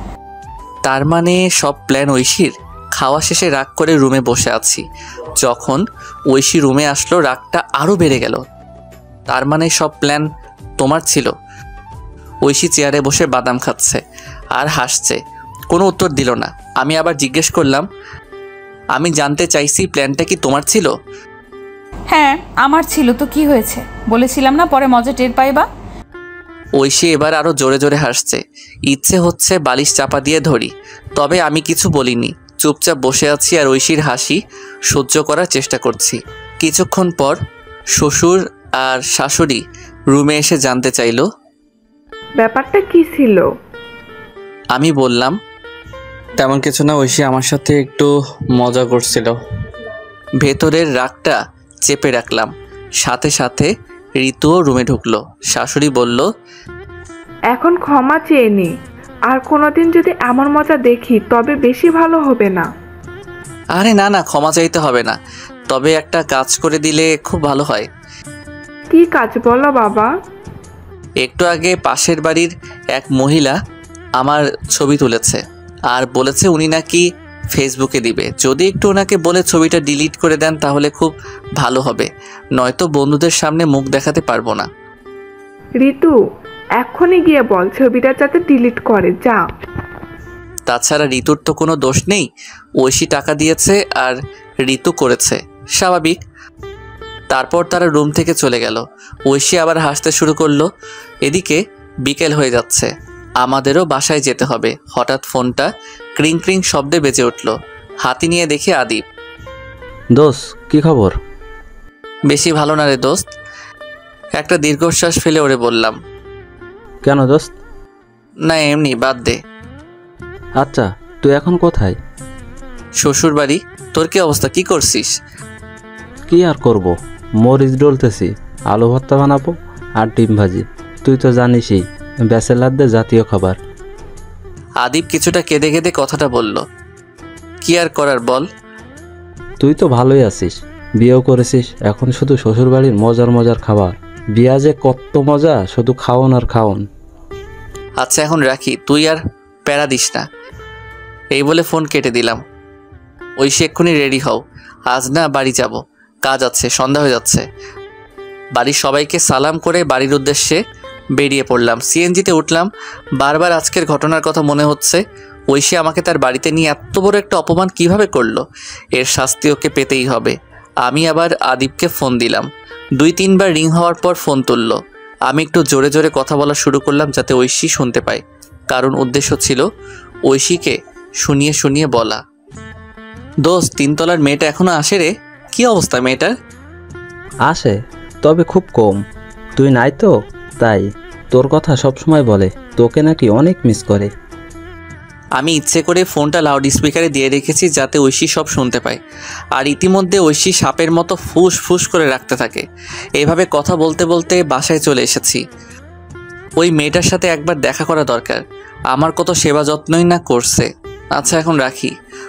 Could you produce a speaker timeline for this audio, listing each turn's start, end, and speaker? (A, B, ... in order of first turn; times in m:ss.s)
0:00.9-0:04.9 A
0:05.4-0:08.4 A
0:09.3-0:10.2 A
0:10.8-0:11.3 A
0:12.5-0:14.0 A
0:14.6-0:15.2 A
0:15.7-0:17.9 A
0:19.0-0:20.9 A
0:22.1-0:25.7 B
0:26.8-0:34.4 A
0:34.9-0:37.4 A
0:38.0-0:41.3 A
0:42.4-0:43.5 C
0:44.8-0:45.4 A
0:46.4-0:49.4 A
0:50.4-0:52.5 A
0:53.0-0:56.3 A
0:57.5-0:58.7 C
0:59.3-1:02.7 C
1:03.8-1:05.2 A
1:05.7-1:07.9 A
1:08.9-1:10.1 C
1:11.2-1:13.6 A
1:14.2-1:24.7 A
1:25.8-1:26.2 C
1:26.8-1:29.4 C
1:30.7-1:36.2 A
1:37.3-1:40.7 A
1:41.3-1:49.0 A
1:50.1-1:51.2 D
1:52.3-1:53.3 A
1:54.4-1:56.0 A
1:57.0-1:57.6 D
1:58.5-1:59.4 A
2:00.6-2:02.0 D
2:03.0-2:05.2 A
2:06.3-2:13.6 D
2:14.8-2:16.6 A
2:17.6-2:18.5 A
2:19.6-2:26.9 D
2:28.0-2:30.3 A
2:31.4-2:32.4 A
2:33.4-2:37.4 A
2:38.6-2:40.6 A
2:41.2-2:48.4 A
2:49.0-2:59.6 A
3:00.3-3:02.2 A
3:03.4-3:06.3 A
3:07.4-3:09.0 D
3:09.6-3:14.1 D
3:15.4-3:19.0 A
3:19.6-3:22.6 A
3:23.2-3:25.4 A
3:26.6-3:31.9 A